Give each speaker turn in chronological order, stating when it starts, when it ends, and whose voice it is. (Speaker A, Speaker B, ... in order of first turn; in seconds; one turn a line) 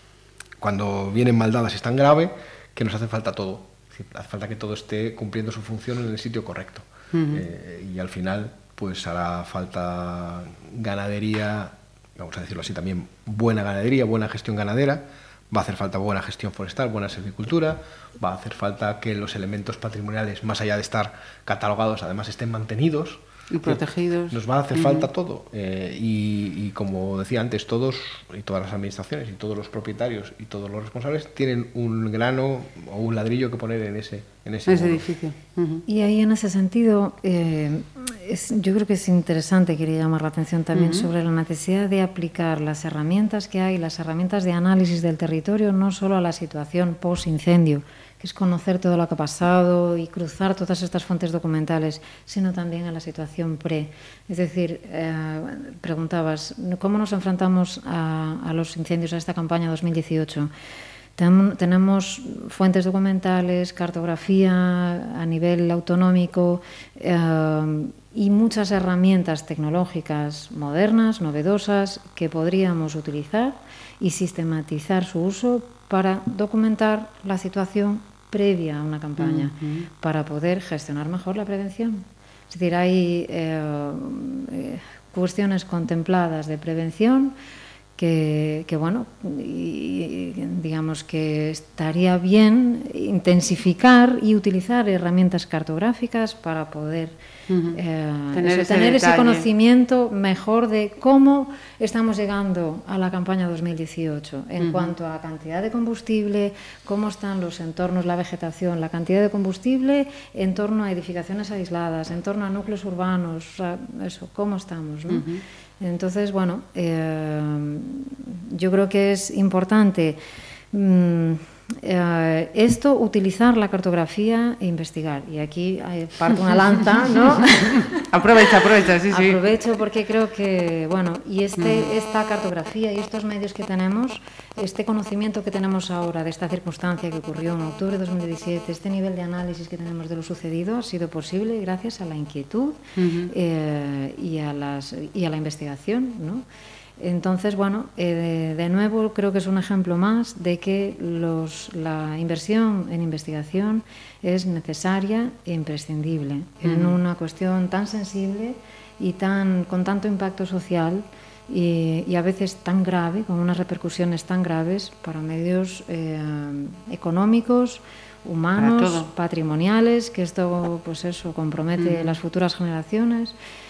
Speaker A: 0.6-35.0
Speaker B: 7.1-7.4
Speaker B: 23.5-25.1
Speaker B: 34.7-35.8
Speaker C: 35.9-60.5
Speaker B: 40.7-41.1
Speaker C: 61.2-87.3
Speaker B: 79.2-79.8
Speaker C: 88.0-97.2
Speaker B: 97.5-97.8
Speaker C: 97.7-115.2
Speaker B: 98.3-99.5
Speaker B: 104.6-105.0
Speaker B: 115.1-115.4
Speaker C: 115.8-120.2
Speaker C: 120.7-128.0
Speaker B: 128.1-129.4
Speaker C: 129.1-142.8
Speaker B: 131.6-131.9
Speaker B: 143.0-143.3
Speaker C: 143.3-146.4
Speaker C: 147.0-173.4
Speaker B: 156.6-157.0
Speaker B: 168.6-169.1
Speaker B: 171.8-172.2